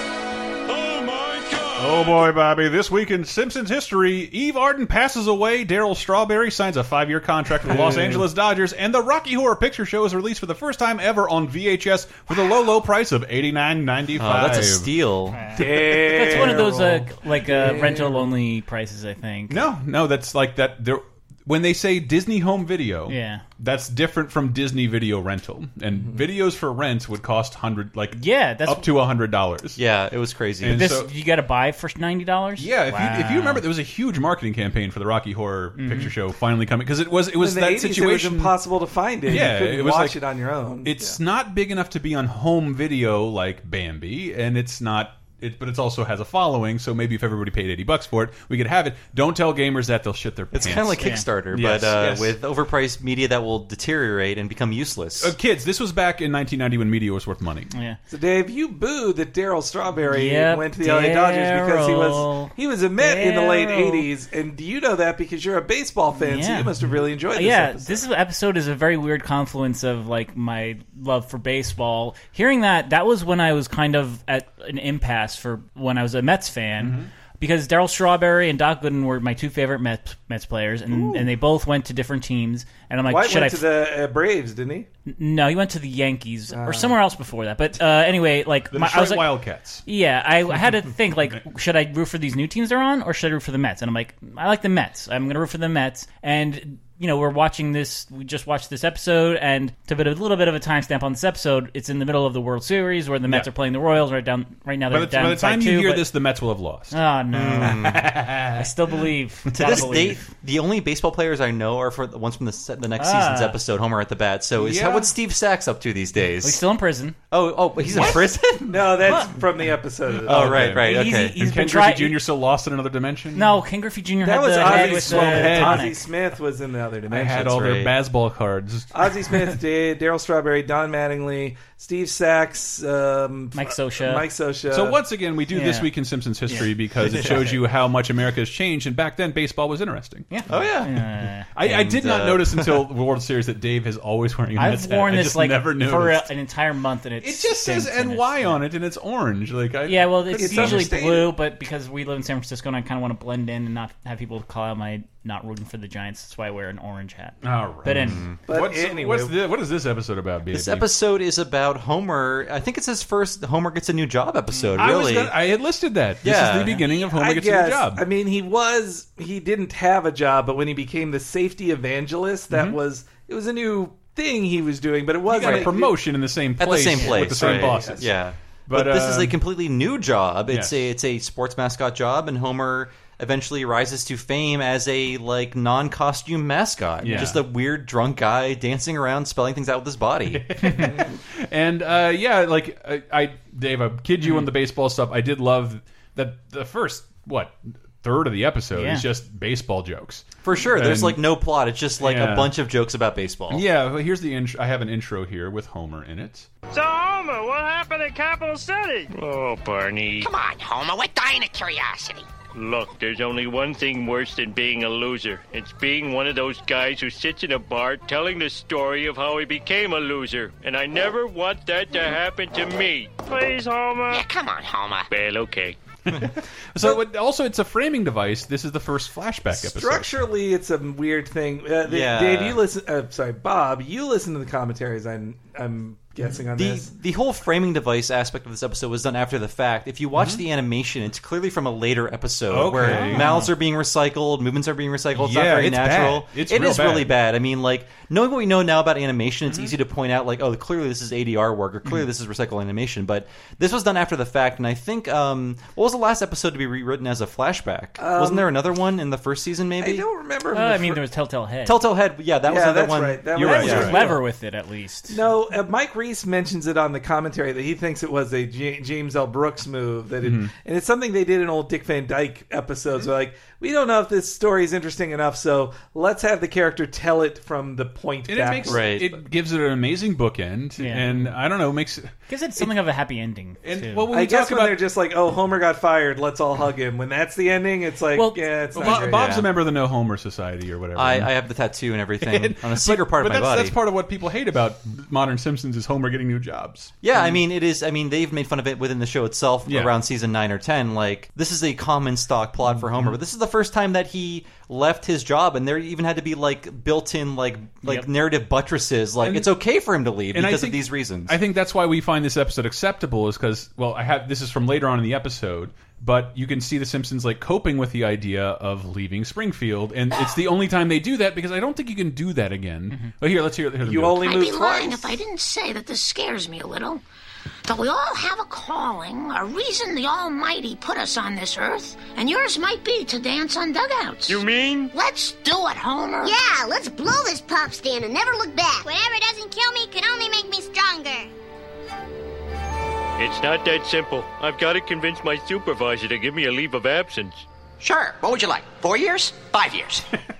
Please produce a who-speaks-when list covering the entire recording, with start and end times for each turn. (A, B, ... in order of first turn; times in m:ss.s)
0:00.7-0:02.2 A
0:01.8-0:14.9 B
0:07.6-0:08.2 C
0:14.2-0:15.6 D
0:15.3-0:19.6 E
0:15.6-0:18.3 C
0:16.1-0:16.5 B
0:19.5-0:29.8 B
0:23.1-0:23.4 E
0:28.1-0:28.9 E
0:29.8-0:30.9 D
0:30.6-0:31.1 B
0:30.7-0:33.6 E
0:32.6-0:38.6 B
0:35.7-0:36.1 E
0:37.4-0:41.2 C
0:39.3-0:40.2 B
0:40.8-0:52.3 B
0:50.5-0:55.3 D
0:51.0-0:51.2 E
0:55.2-0:57.7 B
0:57.7-0:58.0 E
0:58.1-1:08.0 C
1:00.1-1:04.1 E
1:06.2-1:06.7 E
1:07.3-1:23.7 E
1:16.8-1:17.1 B
1:20.9-1:21.2 C
1:23.1-1:24.9 C
1:25.1-1:46.1 E
1:26.5-1:27.0 C
1:28.7-1:29.8 B
1:44.9-1:47.0 B
1:46.9-1:50.2 E
1:47.3-1:48.1 D
1:47.6-1:48.7 B
1:49.5-1:50.1 B
1:49.5-1:56.6 D
1:53.0-1:53.6 E
1:54.6-1:55.1 B
1:56.4-1:57.2 E
1:57.3-1:59.0 D
1:58.7-2:00.7 C
1:59.0-1:59.3 E
2:00.2-2:01.4 D
2:00.2-2:03.6 B
2:00.8-2:02.2 E
2:03.3-2:06.0 E
2:04.2-2:07.6 C
2:04.5-2:05.9 B
2:07.1-2:08.9 B
2:07.4-2:07.9 D
2:08.9-2:15.0 C
2:13.5-2:14.3 E
2:14.7-2:20.7 B
2:15.5-2:15.9 E
2:16.5-2:17.5 E
2:17.0-2:17.4 D
2:20.3-2:21.5 E
2:20.5-2:20.9 D
2:21.5-2:26.3 B
2:21.6-2:22.9 D
2:24.6-2:28.6 E
2:27.2-2:30.9 B
2:29.8-2:38.2 E
2:30.3-2:31.3 C
2:37.4-2:40.9 B
2:38.0-2:38.4 D
2:38.5-2:39.4 C
2:40.5-2:45.3 D
2:44.7-2:48.0 B
2:46.2-2:46.9 D
2:47.0-2:56.0 C
2:52.5-2:52.8 B
2:55.3-2:58.1 B
2:55.4-2:55.7 D
2:56.6-3:10.6 D
2:56.9-2:57.2 E
2:57.2-2:58.0 C
2:58.7-2:59.4 B
3:00.5-3:00.8 B
3:07.0-3:07.4 B
3:10.3-3:21.2 B
3:14.2-3:14.5 E
3:18.7-3:19.0 E
3:20.4-3:23.6 D
3:22.0-3:22.5 B
3:23.5-3:26.5 B
3:26.7-3:29.0 F
3:26.8-3:30.3 A
3:30.2-3:32.2 G
3:32.5-3:44.2 A
3:44.1-3:45.1 G
3:45.1-3:45.8 A
3:46.1-3:50.1 B
3:49.5-3:56.9 C
3:51.8-3:52.6 D
3:56.5-4:20.0 D
4:00.1-4:00.4 B
4:02.5-4:03.5 B
4:02.9-4:03.5 E
4:05.1-4:07.1 B
4:18.0-4:18.5 C
4:19.8-4:21.0 C
4:20.5-4:21.8 E
4:21.6-4:24.0 D
4:22.4-4:24.2 C
4:23.4-4:24.0 B
4:23.4-4:25.2 E
4:25.1-4:38.9 C
4:30.2-4:30.5 B
4:38.3-4:42.7 B
4:38.7-4:39.1 D
4:40.8-4:41.3 E
4:42.3-4:44.1 E
4:43.6-4:44.8 B
4:44.1-4:49.3 C
4:48.1-4:48.4 E
4:48.7-4:51.3 B
4:48.8-4:49.5 D
4:51.0-4:53.8 D
4:52.2-4:57.0 B
4:57.0-5:11.4 D
4:59.6-5:00.0 B
5:09.2-5:09.5 B
5:10.3-5:24.3 B
5:23.8-5:25.1 C
5:24.2-5:27.0 H
5:27.6-5:36.4 H
5:34.3-5:34.9 A
5:36.2-5:41.3 I
5:43.2-5:47.4 A
5:47.8-5:50.0 G